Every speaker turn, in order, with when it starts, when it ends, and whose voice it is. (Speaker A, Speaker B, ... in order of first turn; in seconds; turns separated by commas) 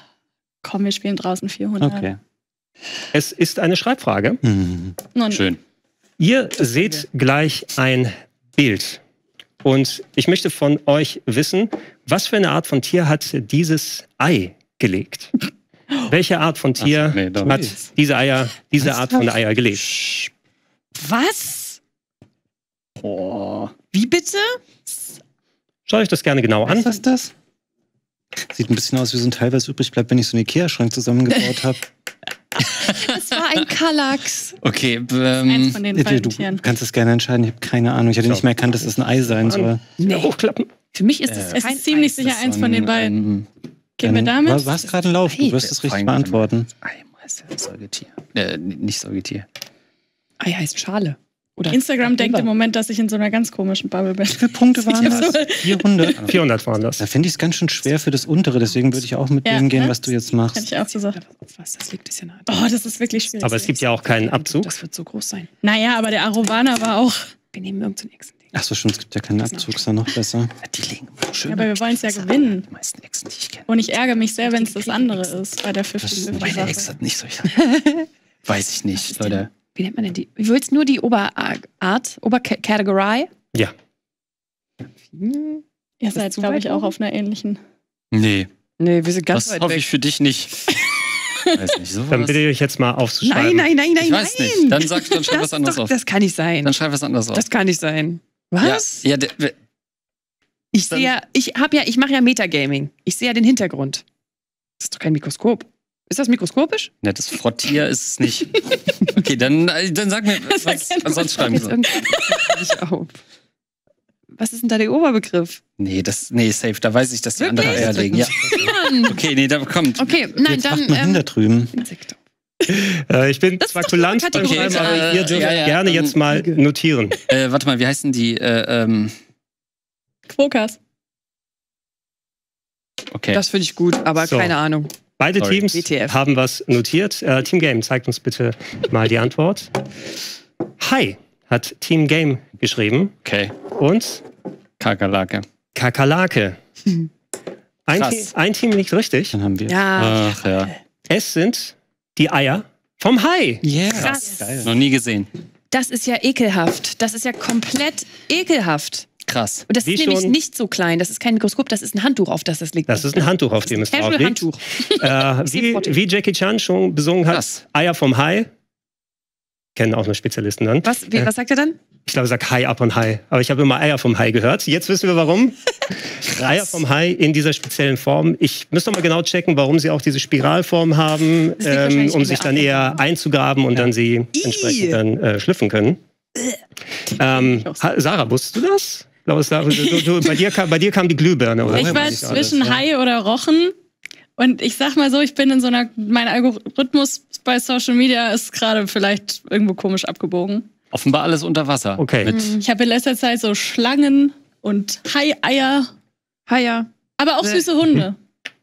Speaker A: 0.6-2.1, Speaker B: 1.8-2.2, Speaker C: 3.1-4.4, Speaker B: 4.4-5.0, Speaker A: 5.2-5.4, Speaker D: 5.3-5.6, Speaker C: 6.2-9.0, Speaker C: 9.6-15.3, Speaker C: 16.1-19.8, Speaker D: 16.8-17.6, Speaker B: 17.4-17.8, Speaker E: 18.9-19.2, Speaker E: 19.8-20.3, Speaker E: 21.0-21.8, Speaker D: 23.0-23.7, Speaker E: 23.9-24.6, Speaker C: 25.9-26.9, Speaker B: 26.7-27.3, Speaker B: 28.4-31.9, Speaker E: 32.7-34.6, Speaker D: 34.6-35.8, Speaker A: 35.5-36.6, Speaker B: 35.9-39.8, Speaker C: 39.4-40.7, Speaker E: 40.0-40.3, Speaker E: 40.9-42.2, Speaker D: 41.3-41.6, Speaker A: 41.5-43.1, Speaker D: 42.2-43.5, Speaker A: 44.0-44.7, Speaker B: 44.0-46.7, Speaker E: 45.3-45.6, Speaker D: 45.6-49.5, Speaker E: 50.4-52.5, Speaker A: 51.7-56.2, Speaker B: 54.3-56.2, Speaker D: 55.0-55.4, Speaker C: 56.3-57.0, Speaker B: 57.0-60.8, Speaker A: 59.5-60.0, Speaker A: 60.5-61.2, Speaker E: 60.9-62.7, Speaker A: 62.5-63.8, Speaker C: 63.4-64.8, Speaker E: 63.4-65.5, Speaker A: 65.6-67.3, Speaker E: 67.5-68.3, Speaker B: 68.5-70.5, Speaker D: 70.6-73.7, Speaker A: 71.5-72.7, Speaker A: 73.7-76.8, Speaker E: 74.4-75.3, Speaker B: 76.0-77.0, Speaker D: 76.4-77.6, Speaker E: 77.5-78.1, Speaker D: 78.5-79.5, Speaker E: 79.0-83.3, Speaker E: 85.1-85.6, Speaker A: 86.0-87.6, Speaker E: 86.1-86.9, Speaker D: 88.1-88.5, Speaker E: 88.8-89.8, Speaker D: 89.3-90.8, Speaker D: 91.5-92.4, Speaker C: 92.1-93.7, Speaker E: 93.2-96.7, Speaker D: 94.0-96.0, Speaker D: 96.6-97.5, Speaker E: 97.3-99.0, Speaker D: 98.6-99.5, Speaker E: 100.7-104.0, Speaker D: 100.8-101.1, Speaker E: 104.8-106.9, Speaker D: 107.0-111.8, Speaker A: 110.4-112.7, Speaker E: 111.3-113.2, Speaker E: 114.3-115.6, Speaker D: 115.8-120.3, Speaker E: 117.4-119.2, Speaker B: 117.6-118.6, Speaker E: 120.0-122.2, Speaker B: 120.5-121.7, Speaker C: 122.7-127.2, Speaker E: 123.6-125.6, Speaker D: 124.3-126.2, Speaker E: 126.3-126.6, Speaker D: 127.3-129.2, Speaker A: 130.3-130.8, Speaker D: 133.1-133.4, Speaker E: 133.3-134.9, Speaker C: 134.2-134.6, Speaker C: 135.2-139.7, Speaker E: 135.7-136.2, Speaker C: 140.8-143.1, Speaker D: 143.2-143.5, Speaker C: 143.8-144.2, Speaker D: 144.8-145.4, Speaker C: 145.8-146.6, Speaker C: 147.9-149.3, Speaker D: 147.9-148.3, Speaker B: 149.3-149.8, Speaker E: 149.7-150.3, Speaker D: 150.0-150.7, Speaker C: 151.1-153.6, Speaker B: 153.6-154.7, Speaker E: 153.9-154.3, Speaker D: 154.6-155.3, Speaker E: 155.7-159.1, Speaker D: 159.3-159.7, Speaker E: 159.7-166.0, Speaker C: 159.8-160.4, Speaker C: 162.9-168.5, Speaker D: 167.3-167.6, Speaker C: 169.8-171.3, Speaker E: 170.8-171.8, Speaker C: 172.1-175.6, Speaker C: 176.2-186.0, Speaker E: 181.6-183.0, Speaker E: 184.4-185.0, Speaker C: 187.2-192.5, Speaker A: 187.4-187.8, Speaker B: 191.6-192.8, Speaker A: 191.7-193.7, Speaker A: 194.4-200.7, Speaker D: 200.9-202.6, Speaker C: 202.0-202.4, Speaker E: 202.3-202.7, Speaker A: 202.6-205.9, Speaker E: 206.5-206.9, Speaker A: 207.2-208.2